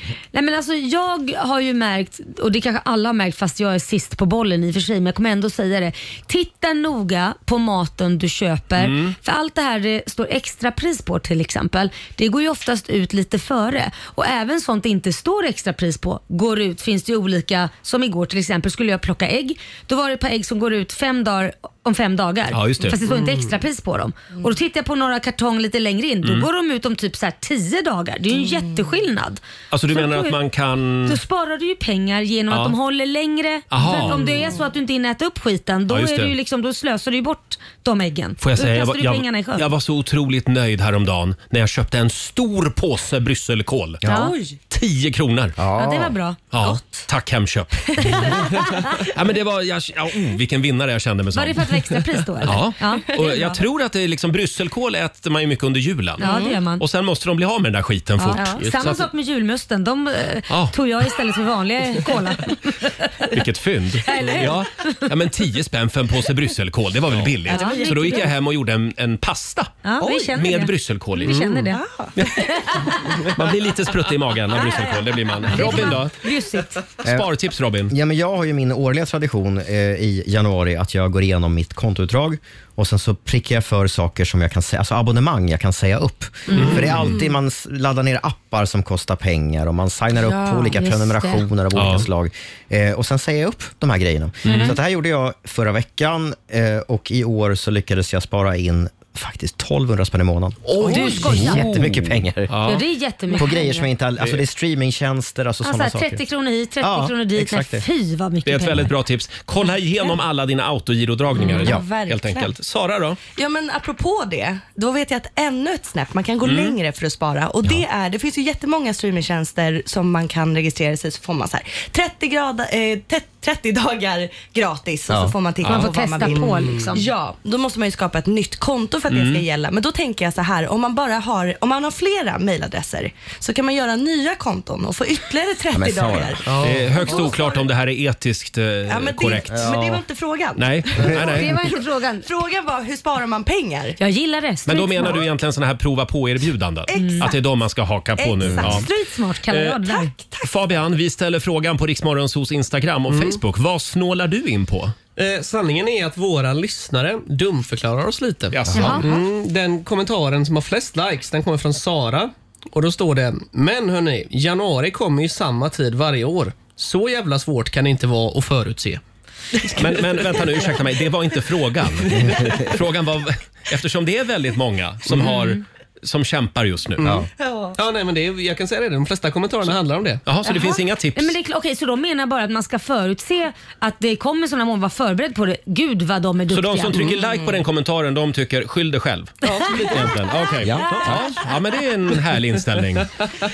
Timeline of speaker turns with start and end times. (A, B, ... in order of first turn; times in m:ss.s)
0:00.3-0:30.4 A
0:08.8-0:09.2 B
0:22.5-0:23.0 B
0:29.7-0:31.2 B
0:31.0-0:39.7 A
0:32.5-0:32.8 B
0:33.7-0:34.2 B
0:34.1-0:34.4 C
0:35.9-0:36.3 B
0:38.4-0:44.0 B
0:44.0-0:44.4 D
0:44.0-0:44.4 A
0:44.1-0:44.6 C
0:44.7-0:45.6 B
0:45.6-0:46.2 D
0:45.7-0:47.1 A
0:46.5-0:56.3 B
0:48.0-0:49.0 A
0:51.3-0:53.6 A
0:56.2-0:56.6 C
0:56.2-0:56.8 A
0:56.8-0:59.0 B
0:58.2-1:03.4 A
1:00.5-1:00.8 B
1:03.3-1:09.8 B
1:04.0-1:05.0 A
1:07.4-1:08.4 A
1:07.5-1:08.2 C
1:09.8-1:11.8 A
1:10.0-1:10.4 C
1:10.4-1:11.4 B
1:11.7-1:12.2 C
1:12.5-1:13.1 A
1:13.3-1:16.2 B
1:14.5-1:16.8 A
1:17.0-1:17.3 D
1:17.0-1:17.9 B
1:17.9-1:42.5 D
1:26.5-1:26.8 A
1:26.6-1:27.2 B
1:30.2-1:31.5 A
1:31.7-1:32.1 B
1:34.4-1:34.8 B
1:34.5-1:34.8 A
1:40.8-1:41.8 A
1:42.5-1:42.8 B
1:42.6-1:43.9 A
1:43.3-1:46.2 D
1:45.6-1:48.9 A
1:46.8-1:47.9 D
1:48.4-1:53.2 B
1:51.4-1:52.5 C
1:53.4-2:17.7 C
1:56.4-1:56.8 B
2:05.1-2:05.4 D
2:05.6-2:07.1 A
2:09.1-2:09.4 B
2:15.7-2:16.5 D
2:16.5-2:16.9 E
2:16.6-2:19.9 B
2:18.9-2:24.0 C
2:19.5-2:20.0 D
2:20.6-2:21.5 B
2:21.1-2:22.3 A
2:24.0-2:25.2 A
2:24.7-2:28.9 B
2:26.9-2:27.4 C
2:27.0-2:27.3 A
2:28.2-2:28.8 C
2:28.5-2:30.1 A
2:29.5-2:29.8 B
2:29.8-2:30.5 C
2:30.4-2:35.0 B
2:33.1-2:33.4 E
2:35.2-2:49.0 E
2:38.5-2:39.0 B
2:38.7-2:39.1 A
2:49.7-2:57.1 B
2:52.2-2:52.7 D
2:55.2-2:55.6 A
2:57.0-2:57.3 D
2:57.4-2:57.8 C
2:57.8-3:00.2 E
3:00.3-3:01.4 B
3:00.4-3:07.2 A
3:06.5-3:13.1 B
3:09.5-3:09.9 C
3:10.6-3:11.2 D